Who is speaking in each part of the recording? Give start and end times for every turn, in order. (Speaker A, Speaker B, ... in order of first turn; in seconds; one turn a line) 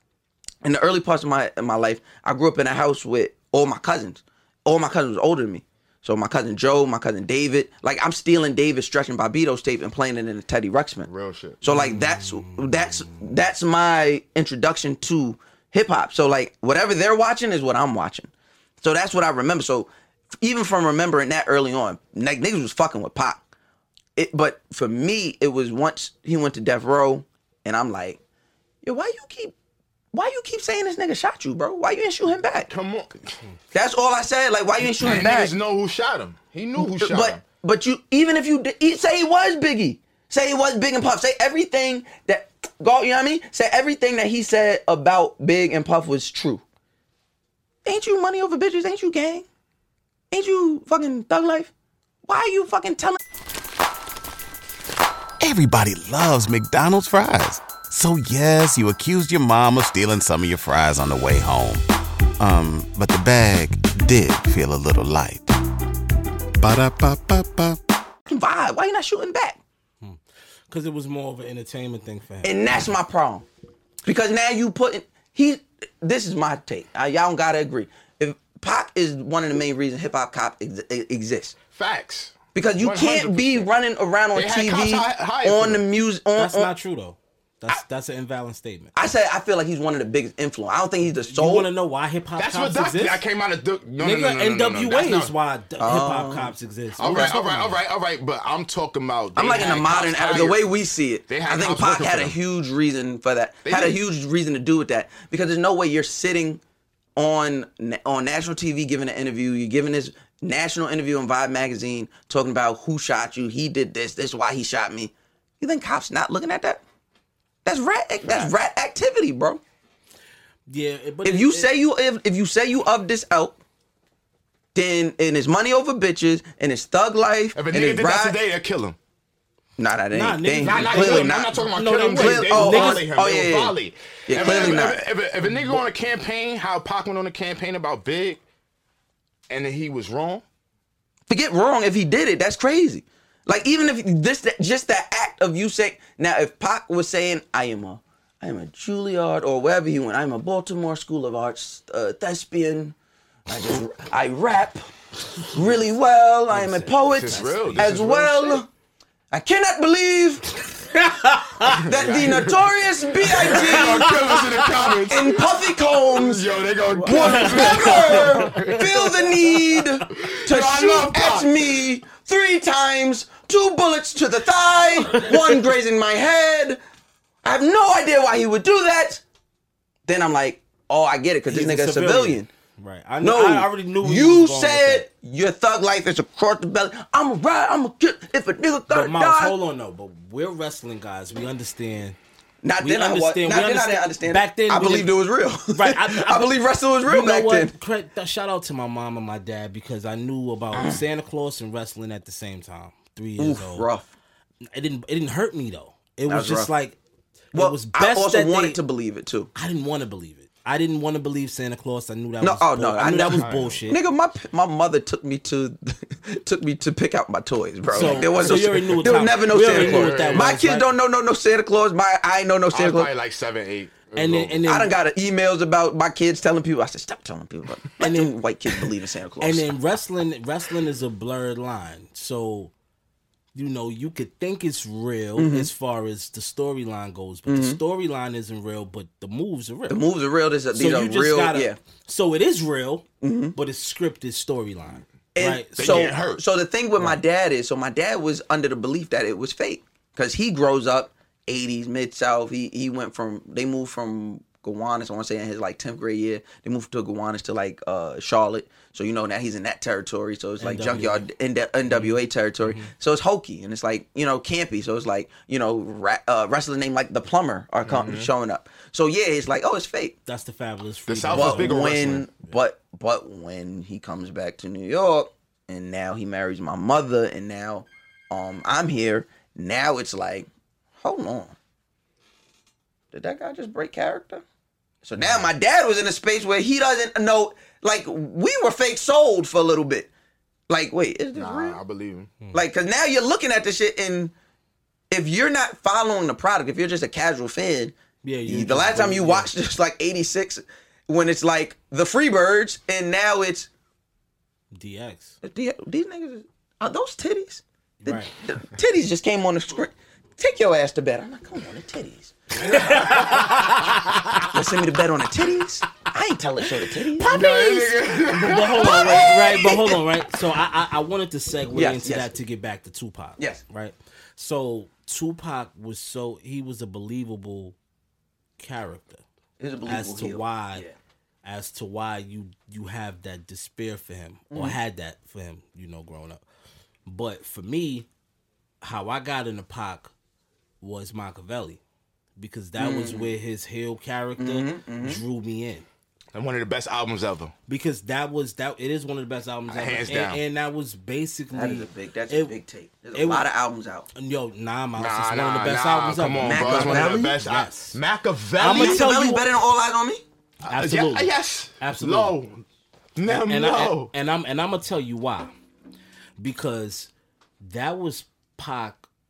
Speaker A: 0.6-11.1
Speaker B: 11.1-11.6
Speaker A: 11.6-18.3
Speaker C: 11.7-13.1
Speaker A: 18.8-19.9
Speaker A: 20.4-23.4
Speaker A: 24.1-28.2
Speaker A: 28.8-29.5
Speaker A: 30.1-32.7
Speaker B: 32.7-33.3
Speaker A: 33.7-35.5
Speaker B: 34.9-37.4
Speaker A: 36.8-46.6
Speaker A: 47.8-49.4
Speaker A: 50.3-51.7
Speaker A: 52.2-53.2
Speaker D: 55.4-61.8
Speaker D: 62.4-65.5
Speaker D: 66.6-67.8
Speaker A: 68.3-69.6
Speaker C: 70.0-72.5
Speaker A: 72.4-73.4
Speaker A: 74.0-81.6
Speaker B: 81.7-83.7
Speaker A: 82.5-86.7
Speaker B: 84.3-85.8
Speaker C: 86.4-88.9
Speaker A: 88.9-91.7
Speaker C: 91.3-93.2
Speaker B: 92.4-95.3
Speaker C: 94.0-97.8
Speaker A: 95.8-97.4
Speaker B: 97.0-100.6
Speaker A: 99.4-106.6
Speaker B: 101.3-102.4
Speaker B: 103.6-104.0
Speaker A: 107.2-116.8
Speaker A: 117.6-119.6
Speaker C: 120.7-121.7
Speaker A: 121.2-123.6
Speaker A: 124.7-128.4
Speaker B: 127.5-129.0
Speaker A: 129.8-131.6
Speaker C: 130.1-133.0
Speaker B: 130.6-138.4
Speaker A: 132.1-133.8
Speaker A: 134.3-135.0
Speaker C: 134.4-134.8
Speaker B: 139.5-140.4
Speaker A: 141.3-152.9
Speaker A: 153.5-154.9
Speaker A: 155.5-158.7
Speaker C: 156.5-157.9
Speaker B: 157.1-158.6
Speaker A: 159.3-160.6
Speaker C: 161.0-161.8
Speaker A: 161.8-164.2
Speaker B: 161.9-162.6
Speaker B: 163.3-169.1
Speaker C: 163.5-165.1
Speaker A: 165.1-176.8
Speaker C: 167.1-168.8
Speaker B: 170.1-171.8
Speaker A: 177.4-179.2
Speaker A: 180.1-182.5
Speaker C: 181.5-185.1
Speaker A: 183.2-189.6
Speaker C: 188.9-192.2
Speaker A: 192.6-197.7
Speaker C: 192.8-195.1
Speaker C: 195.7-196.5
Speaker C: 197.1-203.9
Speaker A: 200.7-201.0
Speaker A: 203.4-204.1
Speaker C: 204.7-207.0
Speaker A: 206.3-206.7
Speaker C: 207.5-208.8
Speaker A: 207.5-209.5
Speaker C: 209.6-214.0
Speaker A: 212.4-223.1
Speaker B: 213.4-213.8
Speaker B: 217.9-220.5
Speaker C: 217.9-220.9
Speaker B: 222.7-224.7
Speaker C: 224.1-224.9
Speaker A: 224.7-229.7
Speaker C: 228.0-228.3
Speaker C: 229.4-232.7
Speaker C: 233.6-240.0
Speaker A: 235.4-235.7
Speaker A: 237.5-237.8
Speaker A: 239.9-241.8
Speaker C: 240.7-246.2
Speaker A: 243.2-243.6
Speaker A: 245.3-270.2
Speaker B: 245.8-246.4
Speaker C: 260.6-261.3
Speaker C: 261.9-262.9
Speaker B: 267.8-268.3
Speaker C: 270.2-271.8
Speaker B: 271.1-272.3
Speaker A: 271.3-280.5
Speaker A: 281.0-281.6
Speaker A: 283.1-284.4
Speaker A: 285.1-290.1
Speaker C: 285.2-285.5
Speaker A: 290.7-291.8
Speaker B: 291.3-292.3
Speaker A: 292.5-294.3
Speaker A: 295.1-297.9
Speaker C: 298.2-299.5
Speaker A: 298.5-303.7
Speaker C: 304.7-305.4
Speaker A: 305.4-313.5
Speaker C: 308.0-308.3
Speaker C: 312.6-314.6
Speaker A: 314.5-318.0
Speaker C: 317.2-327.7
Speaker B: 317.2-319.7
Speaker A: 318.8-320.0
Speaker A: 321.7-322.3
Speaker C: 328.6-329.2
Speaker A: 329.6-330.9
Speaker C: 329.9-330.8
Speaker C: 331.4-336.4
Speaker A: 334.5-334.8
Speaker C: 337.1-338.1
Speaker C: 338.8-340.1
Speaker C: 340.8-341.8
Speaker C: 342.4-345.9
Speaker A: 342.8-343.3
Speaker A: 344.4-345.2
Speaker B: 346.3-347.5
Speaker C: 347.7-352.6
Speaker B: 349.7-350.4
Speaker A: 351.5-354.1
Speaker C: 353.1-353.5
Speaker C: 354.1-358.0
Speaker B: 354.9-359.1
Speaker A: 356.4-357.3
Speaker C: 358.6-359.4
Speaker A: 358.6-360.2
Speaker B: 360.7-362.6
Speaker C: 360.7-362.4
Speaker B: 363.1-364.1
Speaker C: 363.3-365.5
Speaker C: 366.4-367.1
Speaker C: 367.6-369.1